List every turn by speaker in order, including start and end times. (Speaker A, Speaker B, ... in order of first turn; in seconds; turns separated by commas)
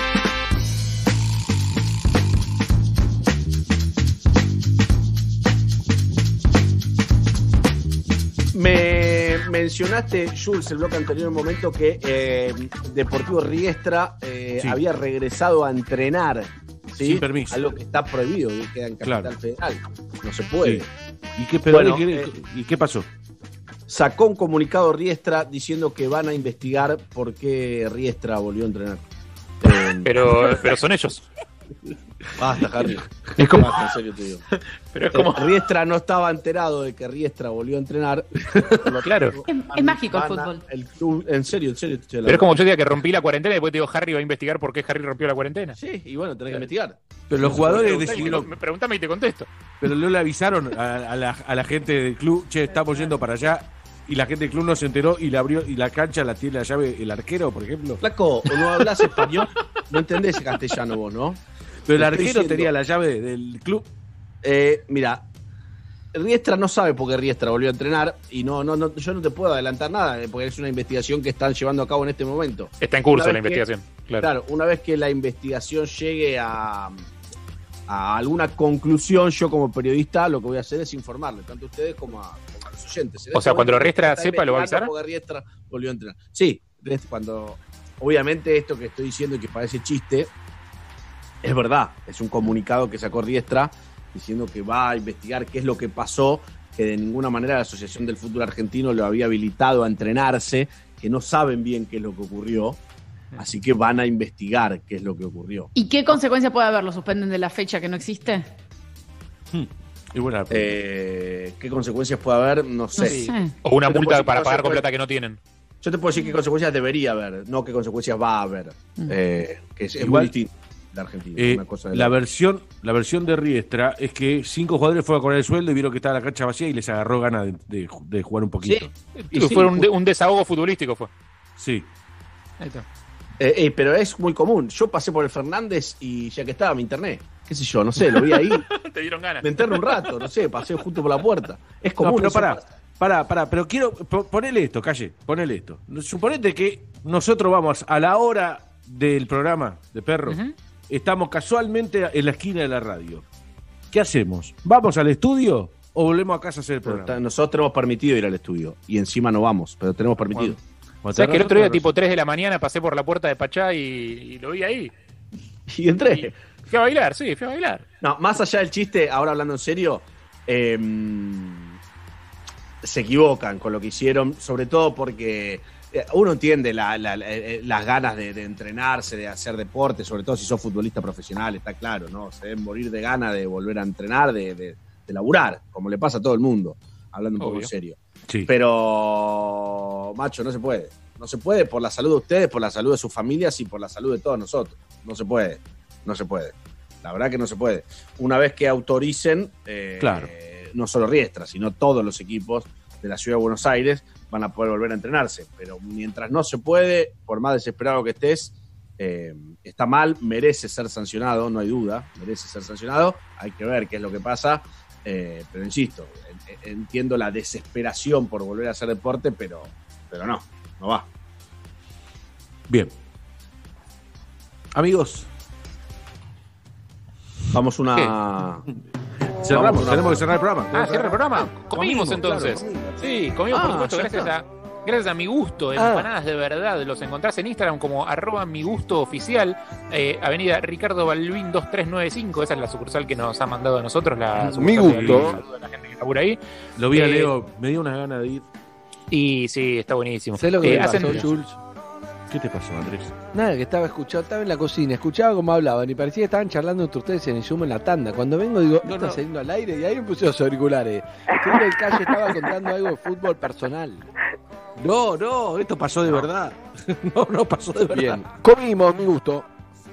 Speaker A: 8.5-20.9, Speaker B: 17.0-17.8, Speaker B: 19.0-19.3, Speaker B: 21.4-23.1, Speaker A: 21.7-22.3, Speaker A: 23.9-29.0, Speaker A: 29.6-30.1, Speaker C: 30.1-31.2, Speaker A: 32.4-34.4, Speaker C: 33.4-33.8, Speaker C: 34.9-35.3, Speaker A: 35.1-38.3, Speaker C: 38.9-39.4, Speaker A: 38.9-42.6, Speaker D: 39.4-40.6, Speaker C: 42.3-45.8, Speaker A: 45.8-48.5, Speaker B: 47.4-48.5, Speaker C: 48.0-49.5, Speaker B: 49.8-59.3, Speaker A: 58.0-61.4, Speaker B: 61.9-63.9, Speaker A: 62.0-62.7, Speaker A: 64.4-65.2, Speaker A: 66.1-77.1, Speaker C: 72.8-74.3, Speaker A: 77.9-90.3, Speaker C: 83.3-84.9, Speaker A: 91.4-102.8, Speaker A: 103.4-105.7, Speaker D: 105.8-108.5, Speaker B: 109.5-110.8, Speaker A: 110.5-114.9, Speaker D: 113.0-113.5, Speaker C: 113.0-115.4, Speaker A: 115.8-122.1, Speaker B: 120.0-120.3, Speaker B: 121.4-129.9, Speaker A: 128.6-129.7, Speaker C: 129.2-131.1, Speaker B: 131.6-131.9, Speaker A: 133.4-138.7, Speaker C: 138.8-139.5, Speaker A: 139.4-142.6, Speaker B: 142.0-153.2, Speaker C: 150.3-150.5, Speaker B: 153.9-157.2, Speaker A: 156.9-160.6, Speaker B: 161.0-161.9, Speaker C: 161.1-164.9, Speaker A: 165.7-166.3, Speaker C: 166.1-167.8, Speaker A: 168.0-171.8, Speaker A: 172.8-221.1, Speaker C: 187.4-187.7, Speaker B: 200.0-200.3, Speaker B: 224.8-225.2, Speaker A: 227.5-228.6, Speaker B: 228.7-232.7, Speaker A: 229.5-230.3, Speaker C: 230.7-246.4, Speaker E: 232.4-232.9, Speaker A: 233.5-234.3, Speaker E: 235.8-236.1, Speaker E: 244.3-245.4, Speaker B: 244.8-245.4, Speaker B: 246.8-248.4, Speaker C: 246.9-247.3, Speaker C: 249.1-251.2, Speaker E: 250.3-251.6, Speaker B: 250.7-251.3, Speaker B: 252.3-253.1, Speaker E: 253.3-264.0, Speaker B: 258.9-259.2, Speaker B: 264.8-268.2, Speaker E: 267.9-269.5